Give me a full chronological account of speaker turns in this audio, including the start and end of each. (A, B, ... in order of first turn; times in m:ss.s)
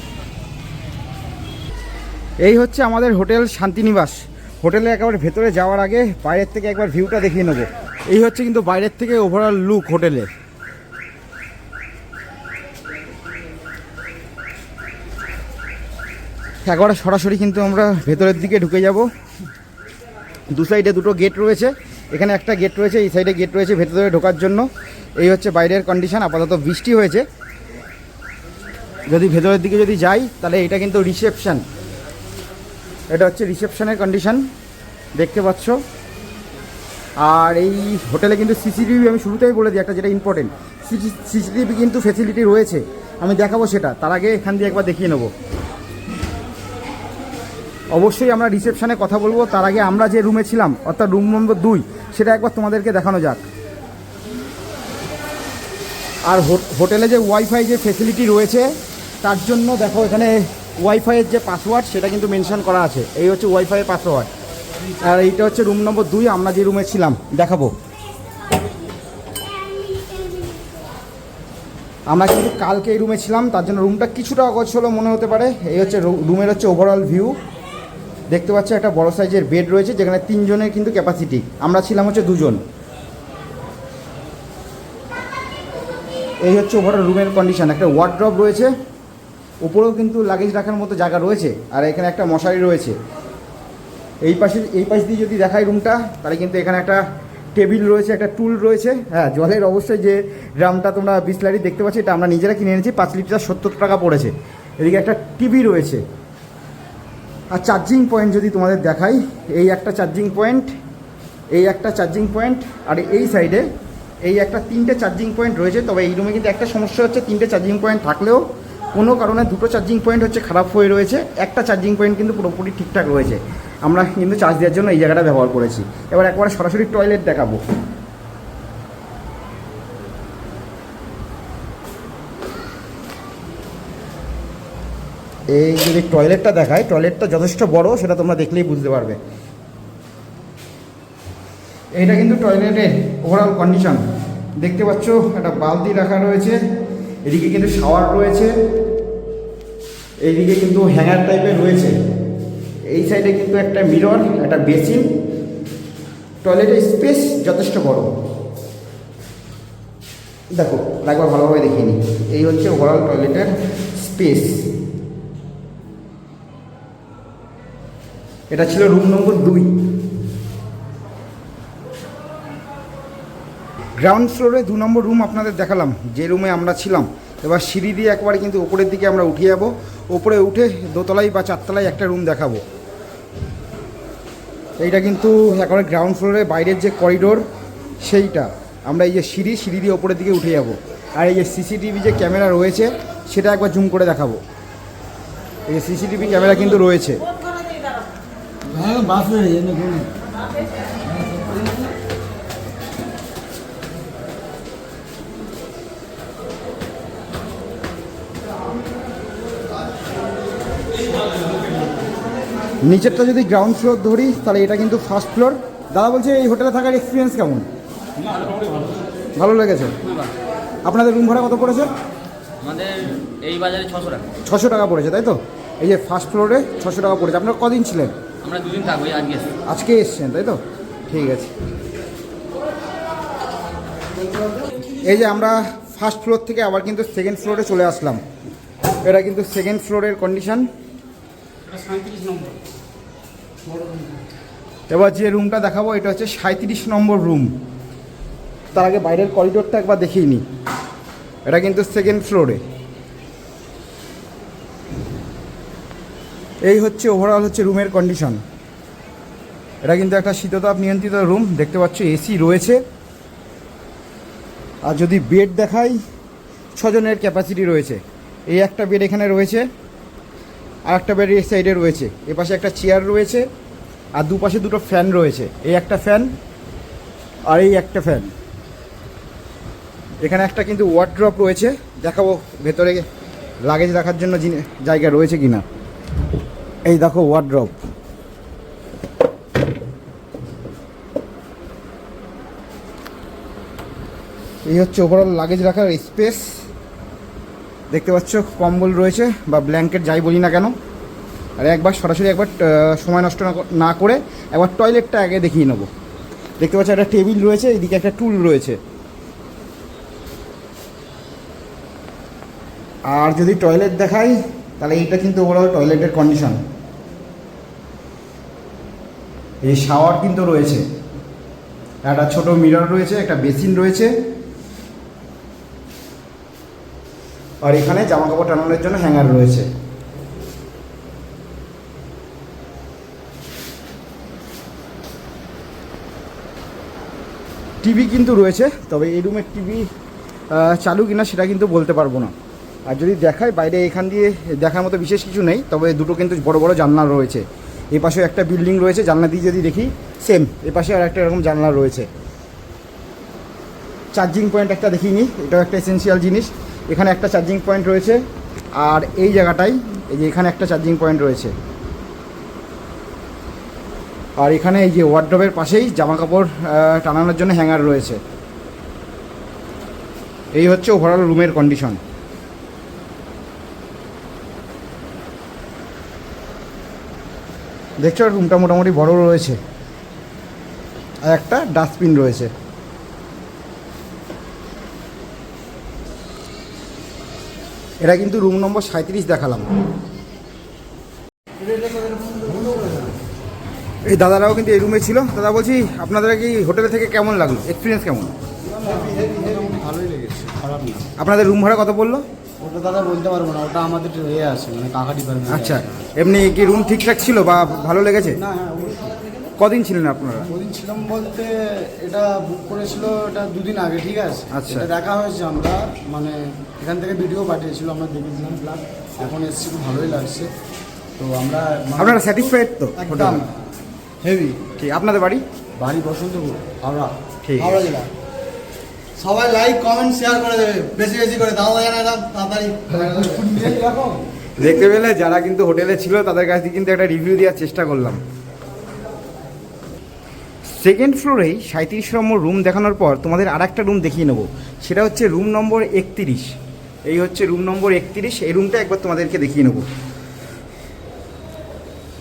0:02.4-0:10.3 A
0:16.7-0:19.1 A
0:20.5-0:24.7 A
0:25.2-0:27.2 A
0:29.1-0:31.6 A
0:33.1-0:34.4 A
0:35.2-0:35.8 A
0:37.2-0:45.3 A
0:47.9-0:53.4 A
0:56.3-1:04.3 A
1:05.0-1:07.7 A
1:12.1-1:17.4 A
1:18.3-1:22.6 A
1:26.4-1:28.7 A
1:29.6-1:33.0 A
1:34.2-1:37.0 A
1:37.6-1:46.0 A
1:47.5-1:50.7 A
1:51.5-1:53.7 A
1:54.2-1:58.4 A
1:59.0-2:07.6 A
2:15.5-2:19.2 A
2:22.0-2:24.0 A
2:24.6-2:26.6 A
2:27.3-2:28.5 A
2:30.2-2:32.0 A
2:32.9-2:35.1 A
2:36.4-2:38.1 A
2:40.6-2:44.7 A
2:48.5-2:49.7 A
2:54.0-3:02.6 A
3:04.8-3:07.4 A
3:08.0-3:14.4 A
3:15.7-3:17.2 A
3:18.8-3:19.9 B
3:32.8-3:37.7 A
3:38.3-3:38.8 C
3:39.4-3:40.0 A
3:40.1-3:40.3 C
3:40.9-3:41.9 A
3:42.6-3:44.3 C
3:44.5-3:48.1 A
3:48.4-3:49.6 C
3:49.7-3:51.5 A
3:55.0-3:58.2 A
3:59.0-4:00.7 A
4:01.7-4:02.6 B
4:03.7-4:04.2 B
4:04.9-4:07.5 A
4:08.7-4:10.4 A
4:11.5-4:12.6 A
4:16.6-4:18.4 A
4:19.8-4:22.8 A
4:24.8-4:26.0 A
4:26.8-4:29.7 A
4:30.9-4:33.5 A
4:34.2-4:36.3 A
4:37.5-4:38.3 A
4:40.2-4:43.0 A
4:43.7-4:45.6 A
4:46.9-4:47.8 A
4:54.7-4:56.6 A
4:57.9-5:00.7 A
5:01.6-5:05.9 A
5:06.6-5:08.8 A
5:13.1-5:16.6 A
5:19.6-5:20.8 A
5:22.0-5:24.1 A
5:27.6-5:29.7 A
5:37.8-5:39.9 A
5:40.5-5:42.3 A
5:42.9-5:52.1 A
5:54.1-5:58.2 A
5:58.8-6:01.5 A
6:04.4-6:08.2 A
6:10.6-6:12.0 A
6:18.0-6:19.6 A
6:21.3-6:22.5 A
6:28.0-6:29.7 A
6:31.6-6:33.1 B
6:34.1-6:38.3 A
6:38.7-6:41.1 B
6:41.2-6:42.2 A
6:42.6-6:46.1 B
6:45.5-6:48.4 A
6:48.4-6:49.2 B
6:49.6-6:50.5 A
6:50.5-7:00.5 B
6:54.5-6:54.9 A
7:01.2-7:02.4 B
7:02.0-7:03.5 A
7:03.0-7:03.5 B
7:04.2-7:04.7 B
7:04.8-7:05.4 A
7:05.8-7:08.1 B
7:07.4-7:07.8 A
7:09.2-7:14.3 B
7:14.6-7:18.2 A
7:20.7-7:26.5 A
7:27.1-7:29.9 A